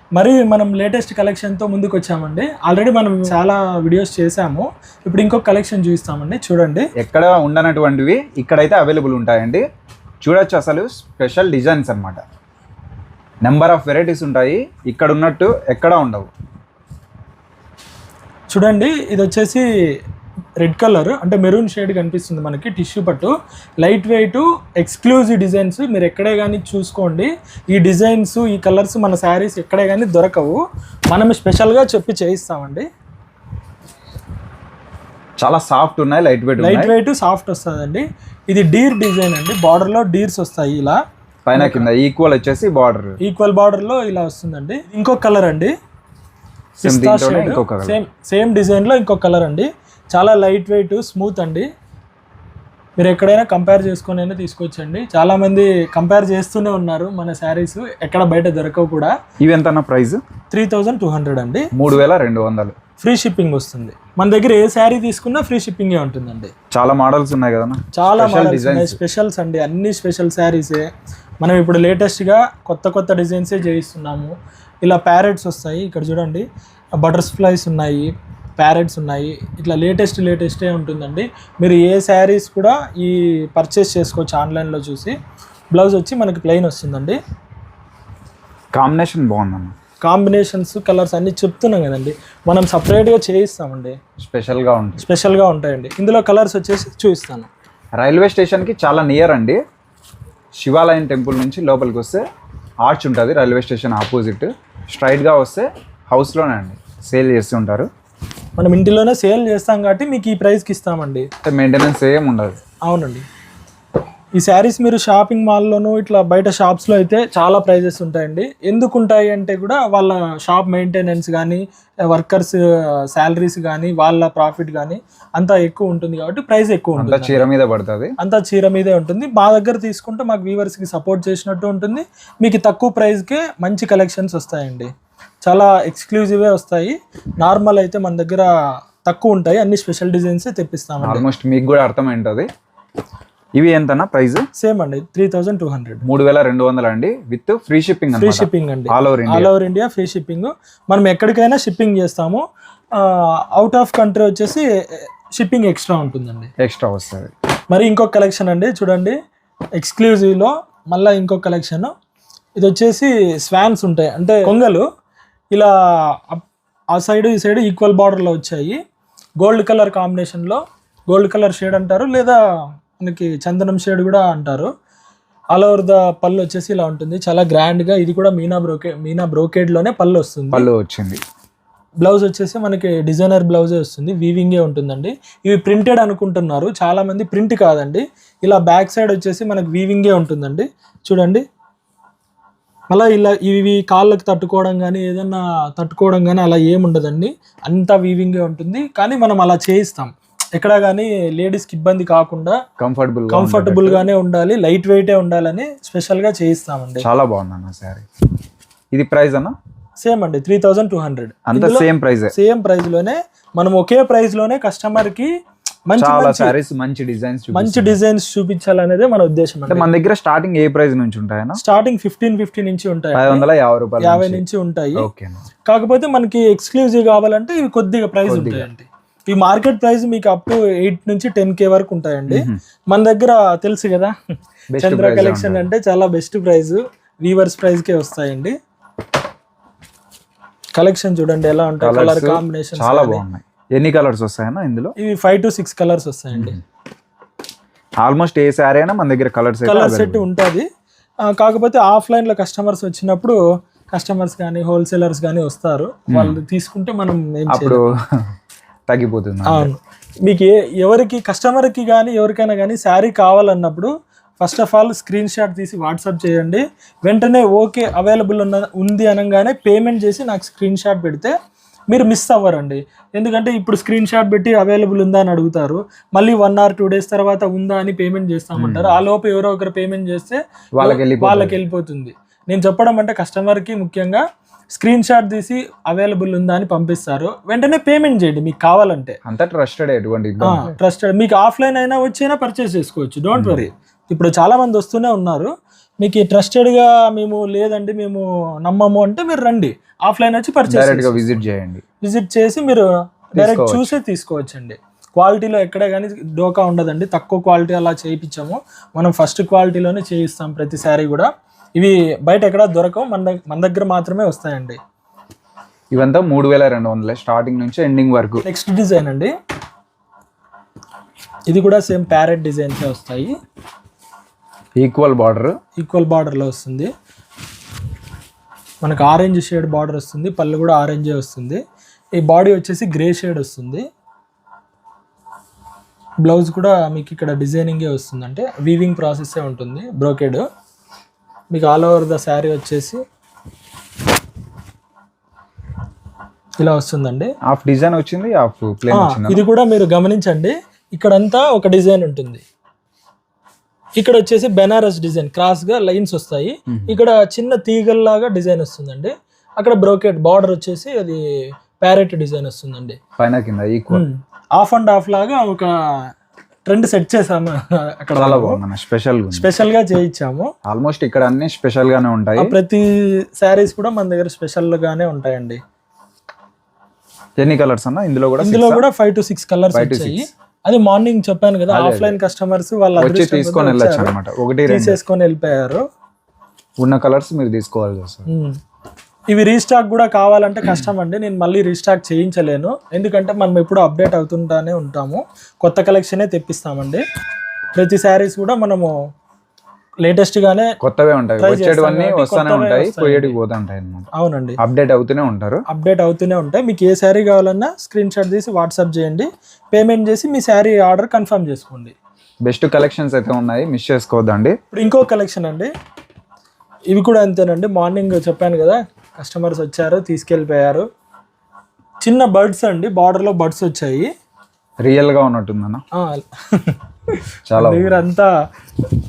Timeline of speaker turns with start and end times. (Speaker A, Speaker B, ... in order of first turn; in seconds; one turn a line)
Speaker A: 0.1-6.9
Speaker B: 7.0-9.6
Speaker B: 10.2-12.2
Speaker B: 13.4-16.3
Speaker A: 18.5-19.6
Speaker A: 20.6-32.9
Speaker B: 35.4-36.9
Speaker A: 36.6-41.0
Speaker B: 41.5-43.2
Speaker A: 41.5-41.9
Speaker A: 43.2-45.7
Speaker B: 46.8-48.0
Speaker A: 46.8-51.7
Speaker A: 53.0-59.1
Speaker B: 59.4-60.2
Speaker A: 60.5-61.7
Speaker B: 61.7-62.7
Speaker A: 63.0-66.5
Speaker B: 66.7-69.0
Speaker A: 67.9-70.8
Speaker A: 71.4-76.4
Speaker A: 77.0-85.2
Speaker A: 85.7-87.2
Speaker B: 88.7-89.7
Speaker A: 90.0-94.0
Speaker B: 94.2-95.0
Speaker A: 95.0-97.5
Speaker B: 98.0-99.6
Speaker B: 100.6-102.2
Speaker B: 102.8-107.9
Speaker A: 108.6-111.3
Speaker B: 111.4-112.6
Speaker A: 112.9-113.2
Speaker A: 114.4-122.6
Speaker A: 123.1-127.5
Speaker B: 127.0-128.1
Speaker A: 128.2-134.9
Speaker A: 135.4-138.5
Speaker A: 139.1-141.2
Speaker B: 141.0-142.5
Speaker B: 143.6-144.4
Speaker A: 144.6-146.0
Speaker B: 146.0-149.5
Speaker A: 148.1-152.4
Speaker A: 152.9-154.6
Speaker A: 155.3-156.5
Speaker B: 156.6-157.3
Speaker A: 157.7-159.2
Speaker A: 159.8-161.9
Speaker A: 162.6-164.8
Speaker A: 166.3-168.8
Speaker A: 169.4-172.4
Speaker A: 173.0-174.7
Speaker A: 175.5-180.7
Speaker B: 180.5-181.2
Speaker A: 182.0-191.4
Speaker A: 192.9-202.6
Speaker B: 202.8-204.1
Speaker A: 203.3-207.1
Speaker B: 207.0-208.0
Speaker B: 208.9-209.5
Speaker A: 210.0-215.3
Speaker B: 211.5-212.3
Speaker A: 215.9-216.5
Speaker B: 216.0-217.9
Speaker A: 217.5-219.9
Speaker B: 219.7-221.6
Speaker A: 221.6-223.4
Speaker B: 223.2-224.4
Speaker A: 224.0-225.1
Speaker B: 225.0-225.4
Speaker A: 225.7-234.1
Speaker B: 228.2-228.7
Speaker B: 232.3-232.6
Speaker B: 234.7-235.7
Speaker A: 234.8-238.5
Speaker A: 240.8-243.2
Speaker B: 241.8-244.9
Speaker A: 245.0-246.6
Speaker B: 246.3-246.6
Speaker B: 248.0-250.2
Speaker A: 249.6-250.7
Speaker A: 251.2-253.4
Speaker A: 253.9-257.8
Speaker B: 256.1-256.4
Speaker B: 257.5-257.9
Speaker B: 258.9-259.7
Speaker A: 259.4-271.3
Speaker A: 271.9-284.2
Speaker B: 278.6-279.0
Speaker B: 280.8-281.6
Speaker A: 284.7-289.2
Speaker B: 289.2-290.6
Speaker A: 290.4-301.4
Speaker B: 293.4-293.6
Speaker B: 300.7-301.8
Speaker A: 302.0-314.8
Speaker B: 303.3-303.9
Speaker B: 315.9-318.4
Speaker A: 318.4-319.3
Speaker A: 321.5-323.3
Speaker B: 324.8-325.5
Speaker A: 325.8-326.9
Speaker A: 328.8-331.6
Speaker A: 332.2-333.8
Speaker A: 336.2-340.4
Speaker A: 341.5-343.0
Speaker A: 346.6-347.3
Speaker B: 347.5-349.4
Speaker A: 348.9-352.4
Speaker A: 354.0-361.2
Speaker B: 356.7-356.9
Speaker A: 361.8-363.0
Speaker B: 363.2-364.0
Speaker A: 363.9-365.7
Speaker A: 366.7-368.6
Speaker B: 368.1-369.5
Speaker A: 369.3-370.5
Speaker B: 370.7-372.5
Speaker A: 372.4-372.8
Speaker A: 373.4-375.6
Speaker B: 377.4-378.8
Speaker A: 378.4-384.1
Speaker B: 379.7-380.2
Speaker B: 381.7-382.1
Speaker B: 383.0-385.0
Speaker A: 384.7-385.8
Speaker B: 386.8-388.2
Speaker A: 388.3-388.5
Speaker A: 389.3-397.0
Speaker A: 397.8-398.9
Speaker A: 400.0-400.7
Speaker B: 400.8-404.1
Speaker A: 401.4-403.4
Speaker A: 404.1-404.6
Speaker B: 404.6-405.6
Speaker A: 405.7-411.9
Speaker B: 412.4-414.5
Speaker A: 414.7-415.7
Speaker A: 416.9-420.8
Speaker A: 422.0-424.1
Speaker B: 424.8-425.8
Speaker A: 425.9-426.8
Speaker B: 427.5-428.0
Speaker A: 427.5-428.3